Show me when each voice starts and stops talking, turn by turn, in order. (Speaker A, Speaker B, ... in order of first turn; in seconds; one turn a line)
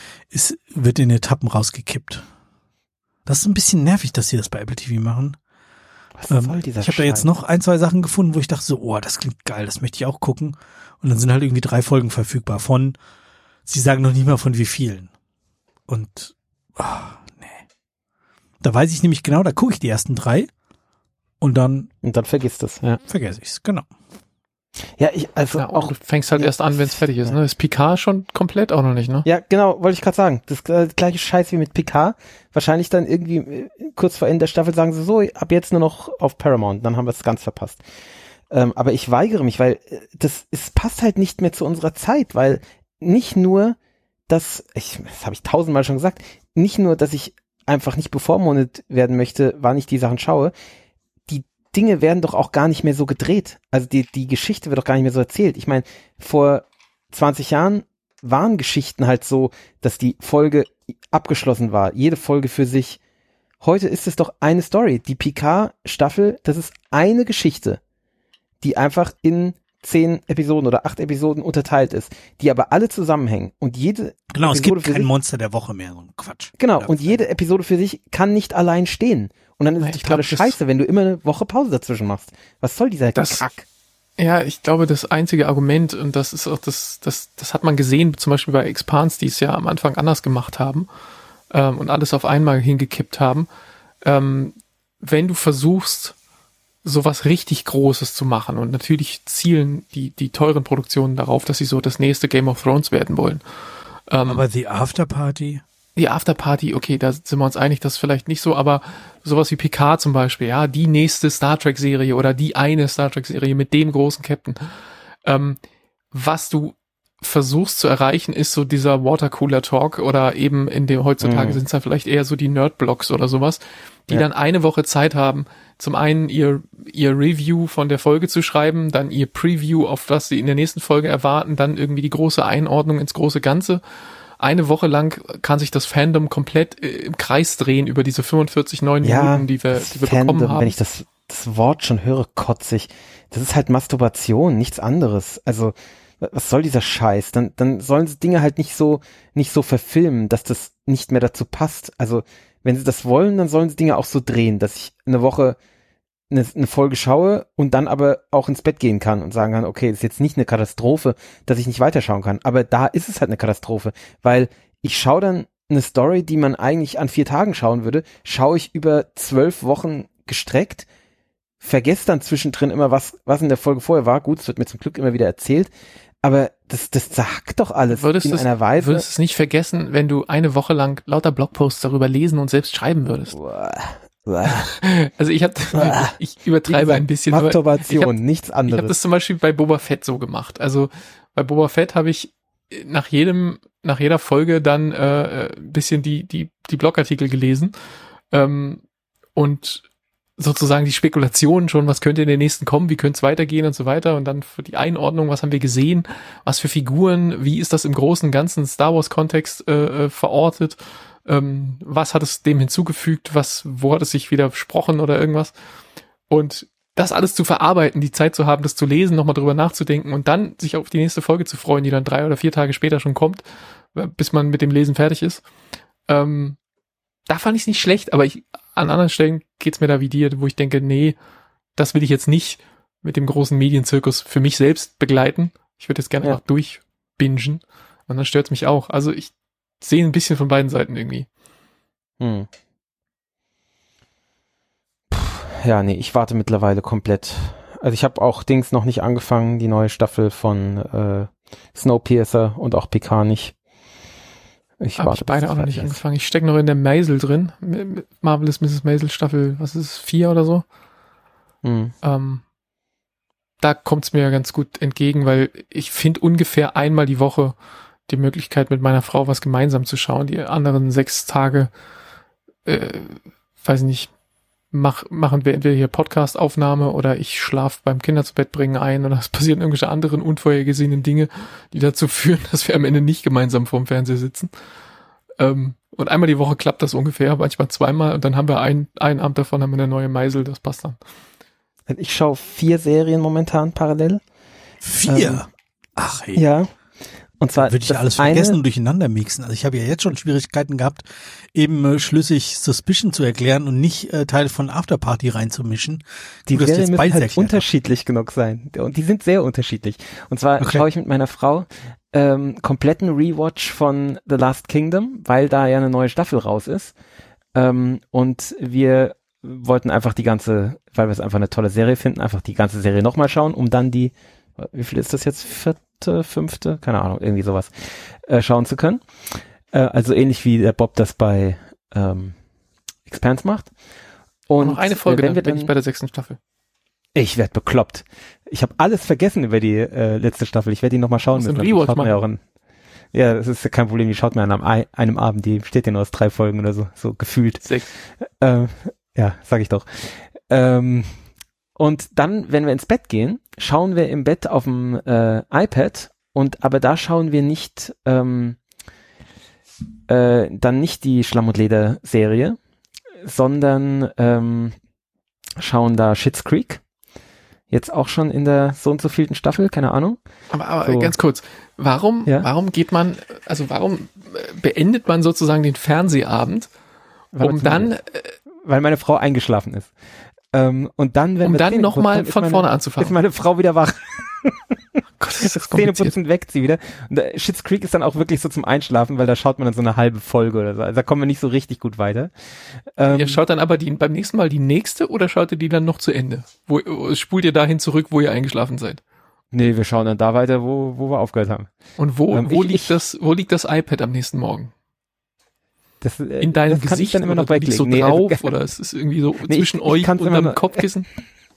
Speaker A: 0.3-2.3
Speaker A: 3.3-5.4
Speaker B: 6.2-7.3
Speaker A: 6.3-13.0
Speaker A: 13.7-15.1
Speaker A: 15.9-17.6
Speaker A: 18.6-20.5
Speaker A: 21.4-21.9
Speaker B: 22.0-23.0
Speaker A: 23.1-23.9
Speaker B: 25.0-27.3
Speaker C: 25.6-29.3
Speaker B: 29.2-37.8
Speaker B: 38.5-43.8
Speaker B: 44.3-50.5
Speaker B: 51.3-63.0
Speaker B: 63.6-67.8
Speaker B: 68.6-75.1
Speaker A: 74.3-77.2
Speaker B: 76.6-83.7
Speaker C: 79.8-80.6
Speaker C: 83.2-83.4
Speaker C: 84.2-90.9
Speaker C: 91.5-93.5
Speaker C: 94.0-96.2
Speaker C: 96.8-103.4
Speaker C: 104.1-104.4
Speaker A: 104.3-105.6
Speaker C: 106.0-114.6
Speaker C: 115.2-115.6
Speaker C: 116.1-133.8
Speaker B: 121.2-121.6
Speaker C: 134.4-140.8
Speaker B: 139.0-155.6
Speaker B: 156.3-170.9
Speaker B: 171.6-175.7
Speaker B: 176.2-179.1
Speaker C: 177.9-183.4
Speaker B: 183.3-184.7
Speaker C: 184.5-188.1
Speaker B: 185.7-186.2
Speaker B: 186.7-188.9
Speaker C: 188.7-197.8
Speaker C: 198.3-198.8
Speaker C: 199.3-199.8
Speaker C: 200.4-215.5
Speaker C: 216.3-225.4
Speaker C: 226.1-226.6
Speaker C: 227.3-231.2
Speaker C: 231.8-241.3
Speaker B: 242.2-242.5
Speaker B: 245.1-253.6
Speaker B: 254.8-256.0
Speaker C: 255.0-260.6
Speaker B: 261.6-261.9
Speaker C: 262.0-262.4
Speaker C: 263.6-267.6
Speaker C: 268.1-271.7
Speaker C: 272.6-274.1
Speaker C: 274.7-284.5
Speaker C: 285.4-291.0
Speaker B: 291.9-294.2
Speaker A: 294.8-296.4
Speaker B: 295.1-295.4
Speaker B: 296.4-296.7
Speaker B: 297.4-298.6
Speaker A: 297.6-307.6
Speaker B: 306.5-316.9
Speaker A: 310.6-310.9
Speaker B: 317.6-329.0
Speaker B: 329.7-332.4
Speaker B: 333.1-333.7
Speaker B: 334.5-335.7
Speaker C: 334.6-336.4
Speaker B: 337.1-342.4
Speaker C: 341.3-342.2
Speaker B: 343.1-347.7
Speaker B: 348.2-351.2
Speaker B: 351.8-358.6
Speaker B: 360.1-362.6
Speaker B: 363.2-364.8
Speaker B: 365.6-366.8
Speaker B: 367.7-370.2
Speaker C: 370.5-376.7
Speaker B: 370.8-371.1
Speaker B: 377.3-377.9
Speaker C: 377.4-378.4
Speaker B: 378.6-379.9
Speaker B: 380.5-384.6
Speaker C: 381.4-383.1
Speaker C: 385.2-386.1
Speaker B: 385.6-392.3
Speaker B: 392.9-393.4
Speaker C: 393.1-399.0
Speaker B: 399.5-401.7
Speaker C: 402.0-404.7
Speaker B: 402.3-403.0
Speaker B: 406.0-408.5
Speaker C: 406.4-411.1
Speaker B: 409.5-410.8